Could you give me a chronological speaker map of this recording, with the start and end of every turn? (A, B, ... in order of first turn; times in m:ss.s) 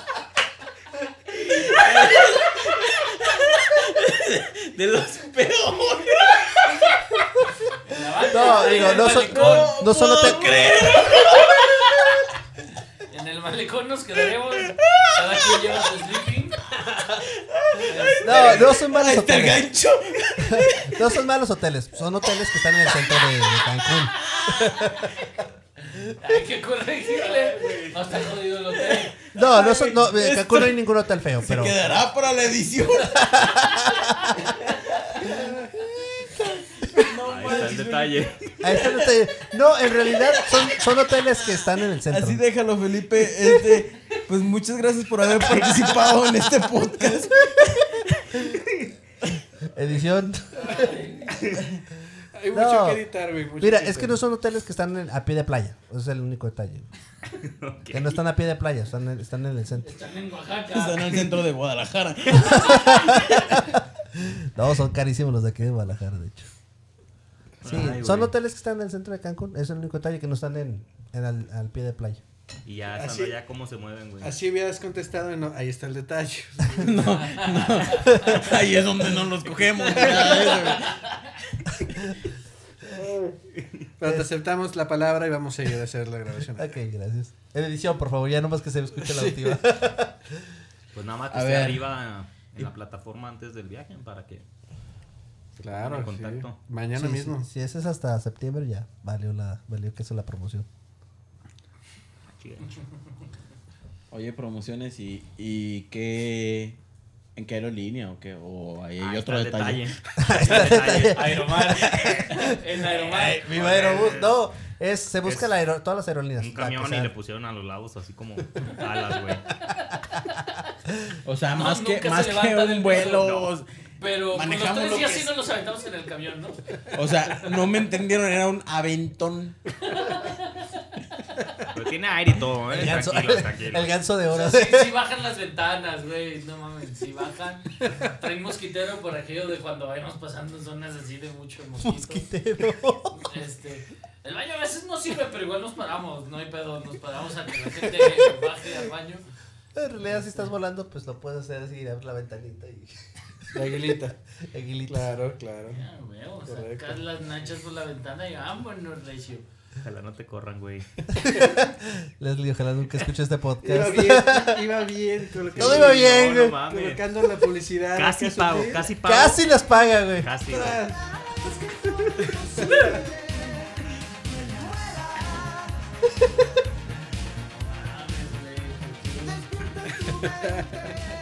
0:01.3-0:07.0 A
0:07.8-0:09.8 B
0:08.3-0:11.1 C
0:08.6-0:12.2 A
0:13.1-0:16.6 B
0:14.7-0:15.9 A
0:17.3-0:21.1 A
0:17.8-0:18.6 B
0:18.2-0:19.7 C
0:20.4-0:25.1 C
0:23.0-0:24.8 A
0:25.9-0:29.2 B
0:27.5-0:28.0 A
0:28.8-0:30.8 A
0:29.3-0:31.8 C
0:31.4-0:33.5 A
0:33.2-0:34.4 C
0:34.4-0:35.5 A
0:36.9-0:38.1 B
0:37.0-0:38.1 A
0:37.2-0:38.5 D
0:38.6-0:42.4 C
0:42.1-0:48.1 A
0:49.7-0:51.0 C
0:50.6-0:51.4 B
0:52.4-0:54.2 E
0:52.5-0:53.0 C
0:53.6-0:56.9 C
0:57.4-0:58.2 D
0:57.9-1:00.0 C
0:59.8-1:01.4 B
1:00.7-1:03.2 A
1:02.4-1:06.5 C
1:07.6-1:08.3 D
1:07.6-1:12.2 C
1:12.6-1:14.4 D
1:13.0-1:13.4 E
1:14.2-1:17.2 E
1:16.8-1:21.1 A
1:17.3-1:18.3 B
1:20.3-1:21.3 B
1:21.8-1:22.2 C
1:22.8-1:23.4 E
1:23.6-1:23.9 D
1:24.0-1:26.7 E
1:24.0-1:24.3 C
1:26.5-1:30.5 C
1:29.1-1:29.6 E
1:30.9-1:34.5 D
1:31.3-1:31.9 A
1:35.6-1:36.6 D
1:35.6-1:37.5 E
1:36.9-1:40.7 C
1:42.3-1:42.7 D
1:44.1-1:46.8 A
1:47.4-1:49.9 A
1:49.0-1:51.7 D
1:50.2-1:57.1 C
1:51.0-1:53.6 B
1:53.5-1:54.4 D
1:55.2-1:55.5 D
1:56.4-1:59.5 D
2:01.2-2:03.7 A
2:01.5-2:03.3 B
2:03.1-2:03.5 D
2:04.0-2:06.6 B
2:04.3-2:05.4 A
2:06.9-2:09.6 A
2:09.9-2:10.7 B
2:11.7-2:14.0 D
2:12.7-2:14.9 C
2:14.3-2:22.3 B
2:21.8-2:23.3 C
2:23.1-2:29.2 B
2:29.8-2:33.6 C
2:30.2-2:30.5 B
2:33.5-2:34.2 E
2:34.4-2:35.2 C
2:34.9-2:35.8 E
2:35.7-2:39.5 B
2:36.5-2:37.0 E
2:39.8-2:40.9 D
2:41.2-2:44.8 C
2:43.6-2:48.9 E
2:45.6-2:47.0 D
2:45.6-2:46.6 C
2:48.0-2:49.4 D
2:49.0-2:50.3 C
2:50.2-2:50.8 D
2:50.5-2:51.1 E
2:52.5-2:53.0 E
2:57.5-2:59.5 B
3:00.0-3:00.9 E